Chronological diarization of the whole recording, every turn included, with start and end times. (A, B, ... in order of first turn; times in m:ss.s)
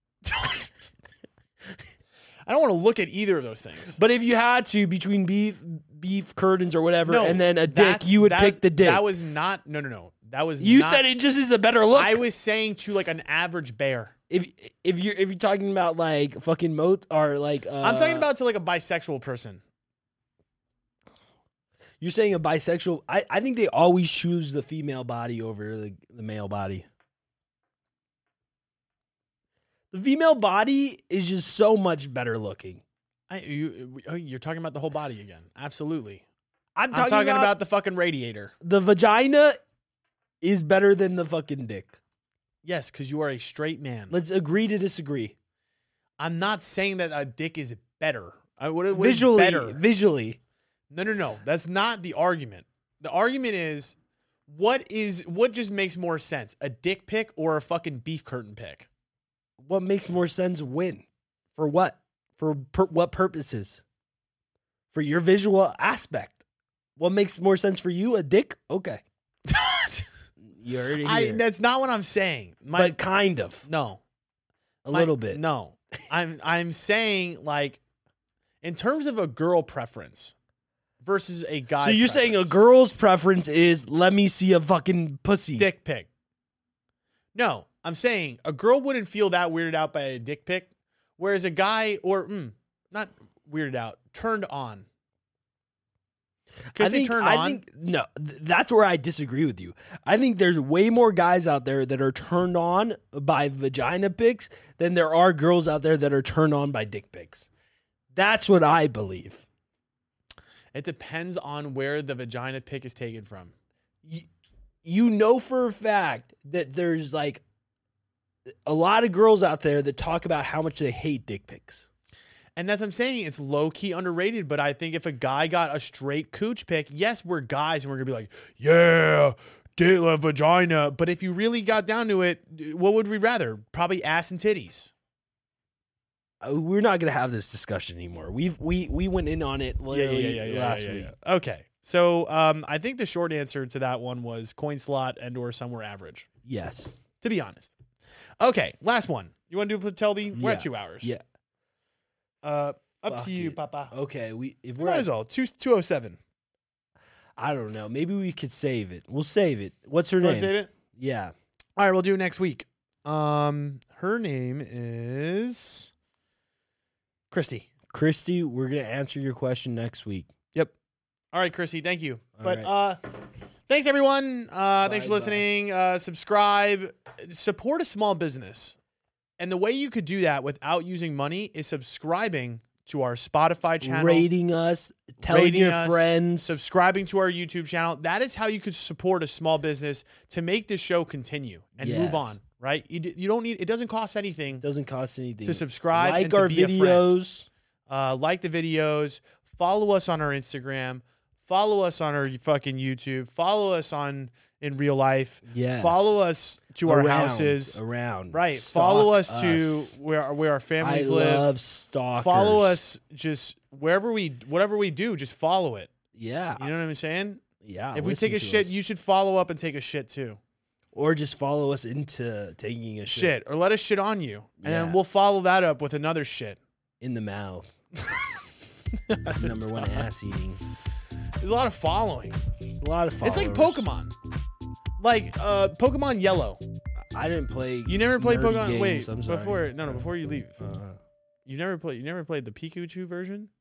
0:00.2-0:00.7 A
0:02.5-0:04.0 A
0:04.0-0:09.1 B
0:07.0-0:11.0 A
0:10.6-0:12.2 B
0:11.9-0:14.1 A
0:14.3-0:18.3 B
0:17.8-0:19.6 A
0:22.0-0:26.8 B
0:29.9-0:32.8 B
0:33.3-0:36.2 A
0:36.8-0:37.5 B
0:36.9-0:38.5 A
0:38.6-0:39.6 B
0:40.4-0:42.0 B
0:42.6-0:44.1 A
0:44.1-0:45.3 B
0:46.2-0:49.8 A
0:48.9-0:50.4 B
0:50.9-0:54.0 A
0:54.5-0:58.9 A
0:59.6-1:01.0 B
1:01.6-1:03.8 B
1:04.9-1:06.4 B
1:07.0-1:09.0 B
1:09.5-1:10.1 A
1:10.4-1:11.4 B
1:11.0-1:13.0 A
1:12.7-1:13.6 B
1:13.6-1:14.0 A
1:14.8-1:15.4 B
1:14.9-1:17.8 A
1:18.6-1:20.3 A
1:21.0-1:22.5 A
1:21.8-1:25.7 B
1:25.6-1:26.1 A
1:27.3-1:34.8 A
1:36.7-1:47.5 B
1:36.7-1:37.6 A
1:48.1-1:49.4 B
1:50.7-1:53.5 A
1:54.8-1:57.4 B
1:58.6-2:01.8 B
2:02.6-2:14.9 A
2:16.4-2:21.1 B
2:19.9-2:26.3 A
2:26.4-2:27.0 B
2:27.2-2:27.7 A
2:28.4-2:31.1 A
2:30.3-2:31.2 B
2:32.4-2:33.9 A
2:33.1-2:35.1 B
2:34.8-2:36.2 A
2:37.4-2:41.3 B
2:40.2-2:40.7 A
2:41.8-2:45.9 A
2:47.3-2:47.7 A
2:47.9-2:50.3 B
2:51.3-2:53.0 A
2:52.4-2:52.7 B
2:53.7-2:58.8 A
2:54.8-2:55.4 B
2:59.4-3:04.3 A
3:03.8-3:06.6 B
3:05.2-3:14.6 A
3:11.8-3:12.4 B
3:14.6-3:17.5 B
3:15.4-3:17.1 A
3:17.9-3:27.8 A
3:25.4-3:26.0 B
3:26.8-3:30.0 B
3:28.3-3:31.5 A
3:30.8-3:32.8 B
3:32.2-3:35.9 A
3:36.1-3:36.7 B
3:36.6-3:37.4 A
3:37.6-3:38.7 B
3:37.9-3:40.4 A
3:40.9-3:43.4 B
3:43.1-3:46.6 A
3:44.6-3:45.0 B
3:47.0-3:47.7 B
3:48.0-3:48.3 A
3:49.1-3:50.1 A
3:49.3-3:50.6 B
3:51.4-3:52.4 A
3:52.8-3:53.9 B
3:53.2-3:54.1 A
3:55.0-3:56.6 A
3:57.1-4:01.0 B
3:57.8-4:00.6 A
4:01.4-4:03.5 A